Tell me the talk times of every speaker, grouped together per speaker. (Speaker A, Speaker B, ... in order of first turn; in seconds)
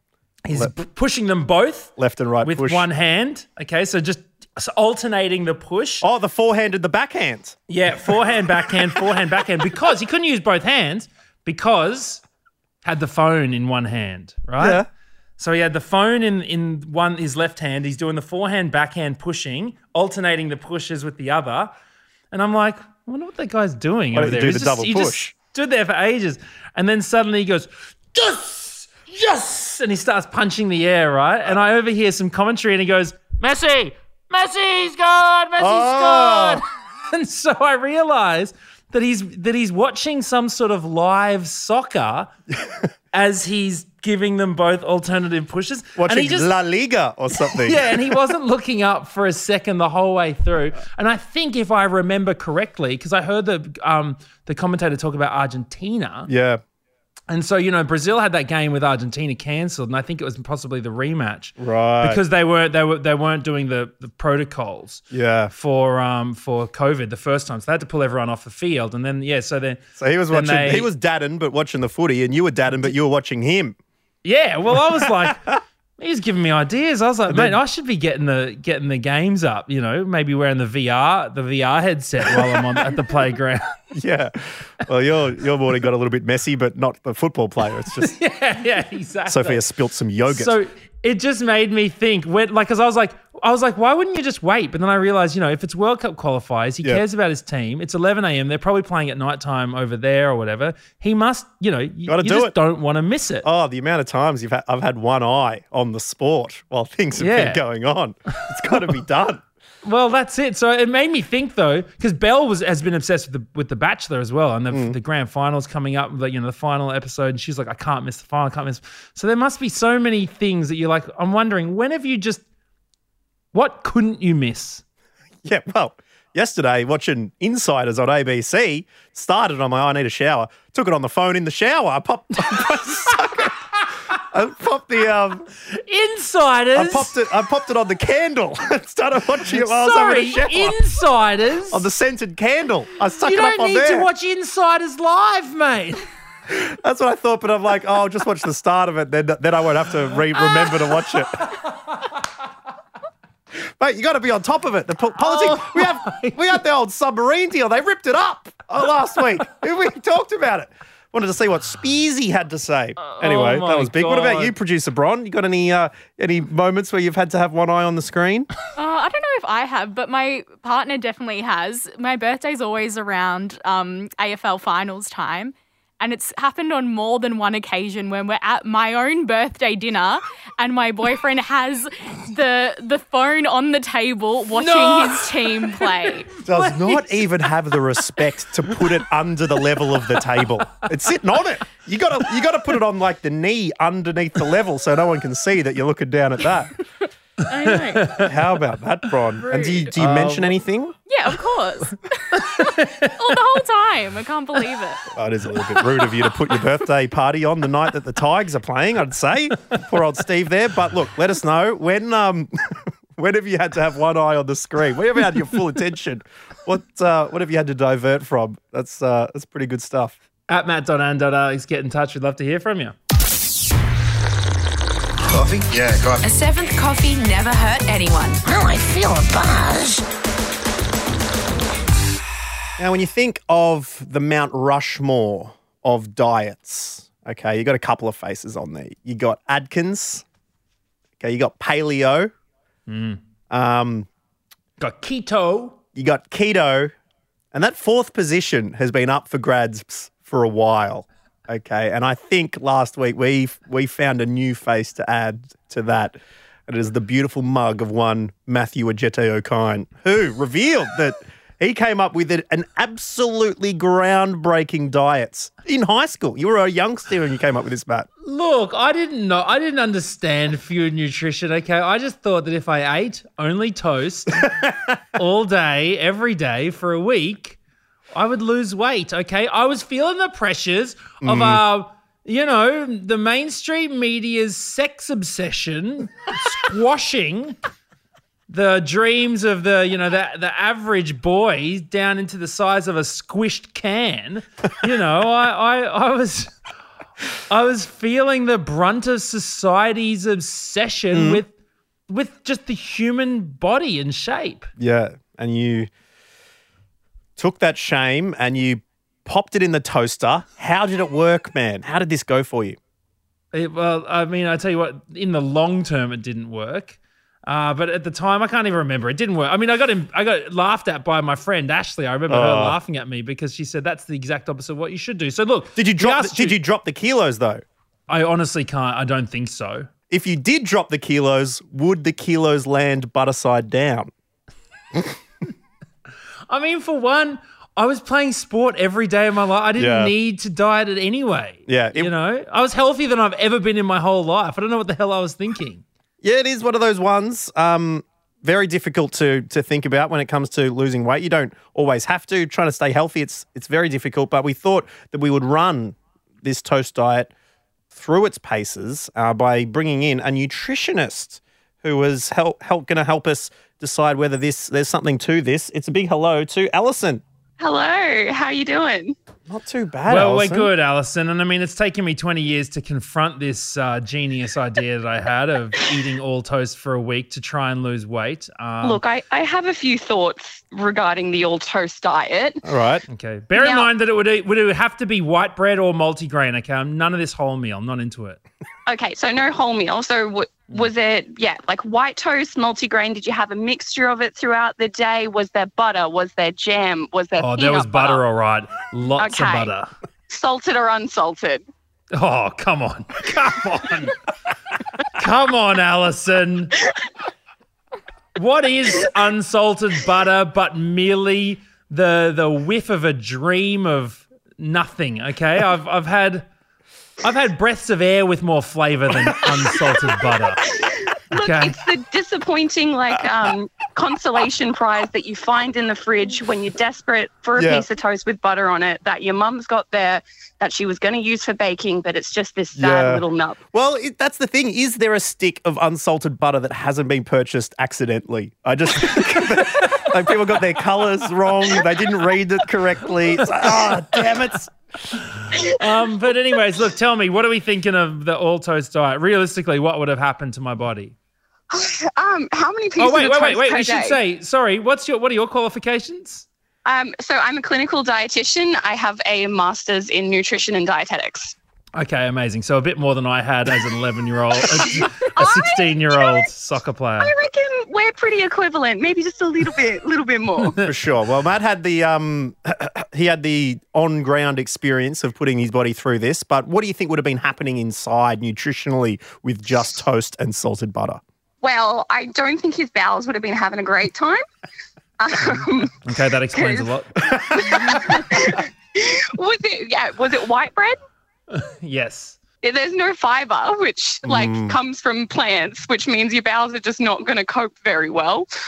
Speaker A: 0.5-6.0, 7.7-12.2, 12.8-14.8, 15.4-21.7, 22.3-42.3, 43.1-46.5, 47.5-56.3, 57.3-70.9, 74.2-83.7, 88.0-89.6, 90.3-103.5, 107.2-107.6, 109.8-122.4, 123.5-124.8, 135.7-137.1, 139.5-141.8, 143.2-146.1, 150.5-150.7, 151.4-152.1, 155.2-156.5, 163.0-164.5, 184.5-187.1, 197.9-198.3, 199.9-200.6, 202.3-203.1, 220.5-222.9, 242.9-243.2, 244.8-245.8, 268.2-274.5, 275.1-277.6, 278.1-287.6, 288.5-296.5, 297.5-301.5, 302.1-304.7, 313.5-326.6, 328.1-329.9, 336.5-345.8, 370.1-379.0, 383.1-388.4, 397.4-399.9, 402.1-404.1, 405.1-406.8, 408.4-416.5, 417.2-420.7, 421.3-421.8, 443.6-444.2, 445.3-451.1, 453.0-456.4, 461.9-467.3, 470.6-470.9, 486.0-487.1, 491.5-492.4
Speaker B: 2.0-2.9, 6.0-9.4, 14.6-14.9, 24.1-25.3, 35.6-36.6, 46.0-48.1, 56.3-56.6, 61.6-62.2, 65.1-65.5, 70.0-73.8, 74.8-75.3, 77.3-77.6, 82.3-82.9, 83.9-88.2, 89.2-90.5, 102.0-102.5, 103.4-109.4, 114.7-115.0, 125.4-133.6, 134.1-135.5, 136.7-140.8, 141.7-144.1, 146.5-151.5, 153.8-168.5, 186.4-196.7, 198.1-200.9, 205.1-220.2, 232.8-240.2, 241.2-242.3, 243.5-244.1, 245.9-246.9, 247.5-268.1, 274.4-274.9, 281.2-281.6, 301.1-301.4, 304.8-305.9, 307.4-312.8, 322.3-322.8, 325.8-327.6, 330.1-334.1, 339.8-340.1, 341.7-342.1, 346.2-357.3, 357.9-367.2, 369.5-370.7, 382.6-383.0, 427.5-427.8, 432.7-444.7, 470.8-481.2, 487.2-488.1, 494.2-494.8
Speaker C: 168.8-186.3, 197.5-198.3, 199.5-199.9, 201.1-205.0
Speaker D: 225.3-226.2, 228.6-229.7
Speaker E: 226.2-228.7
Speaker F: 367.6-369.1, 378.8-382.6, 383.6-383.9, 388.9-398.2, 399.2-399.7, 400.3-401.6, 420.7-433.6, 451.7-454.2, 456.8-461.5, 464.7-466.5, 467.2-470.8, 481.6-484.4, 485.2-486.0, 486.5-486.9, 487.5-490.9, 492.6-498.5